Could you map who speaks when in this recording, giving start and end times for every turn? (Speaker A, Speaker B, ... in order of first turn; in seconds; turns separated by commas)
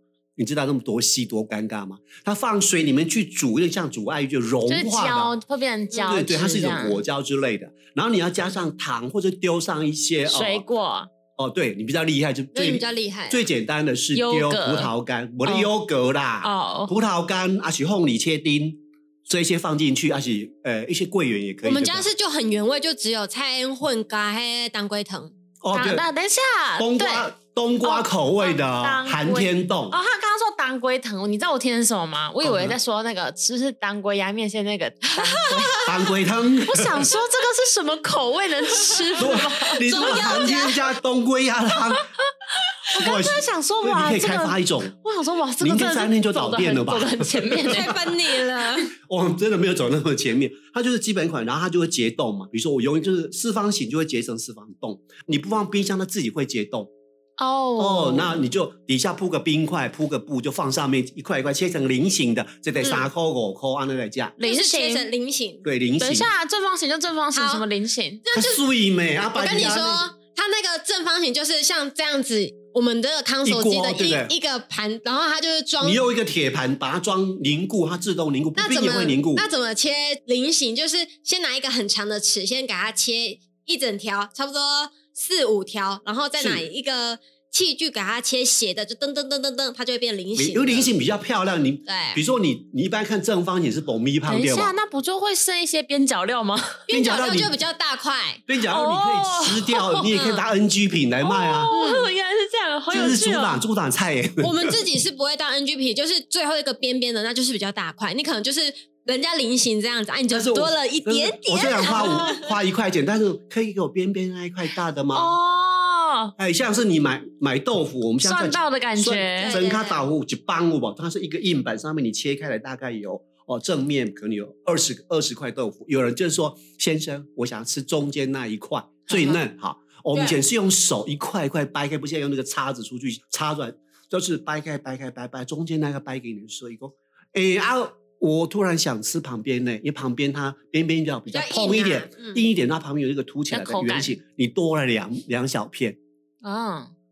Speaker A: 0.4-5.4, Speaker B: 4.7-7.0, Speaker A: 6.0-10.7, Speaker B: 10.2-11.1, Speaker A: 11.4-22.1, Speaker C: 12.5-13.5, Speaker B: 14.1-14.9, Speaker B: 15.4-15.7, Speaker B: 16.4-16.9, Speaker C: 21.6-25.3, Speaker A: 25.6-26.1, Speaker B: 25.7-27.3, Speaker A: 26.8-30.0, Speaker B: 27.8-35.9, Speaker A: 32.4-32.8, Speaker C: 35.2-35.9, Speaker A: 35.8-37.0, Speaker B: 36.6-40.7, Speaker C: 39.1-40.8, Speaker A: 39.2-42.0, Speaker B: 42.9-48.0, Speaker A: 42.9-44.9, Speaker A: 45.6-47.9, Speaker C: 47.7-48.9, Speaker A: 48.8-56.9, Speaker B: 57.4-58.5, Speaker A: 57.8-64.4, Speaker C: 62.8-63.1, Speaker B: 64.4-65.1, Speaker C: 64.4-65.7, Speaker A: 65.6-66.3, Speaker B: 66.0-68.2, Speaker C: 67.3-67.7, Speaker C: 68.2-68.6, Speaker A: 68.3-70.0, Speaker C: 69.3-76.0, Speaker A: 73.4-74.3, Speaker A: 75.8-79.5, Speaker C: 78.6-90.9, Speaker A: 86.4-86.7, Speaker A: 90.4-94.8, Speaker C: 91.9-92.2, Speaker B: 94.3-96.8, Speaker C: 96.9-98.4, Speaker A: 96.9-97.5, Speaker A: 98.5-101.7, Speaker B: 98.7-100.0, Speaker C: 100.0-100.5, Speaker B: 101.2-103.6, Speaker C: 101.7-102.1, Speaker A: 102.9-104.8, Speaker C: 104.4-112.5, Speaker A: 110.3-115.3, Speaker B: 111.8-112.3, Speaker B: 115.1-116.3, Speaker A: 116.4-146.0, Speaker B: 118.2-119.6, Speaker C: 119.4-120.0, Speaker C: 129.1-129.4, Speaker C: 130.1-130.4, Speaker C: 141.3-142.4, Speaker B: 143.5-144.2, Speaker B: 146.4-146.9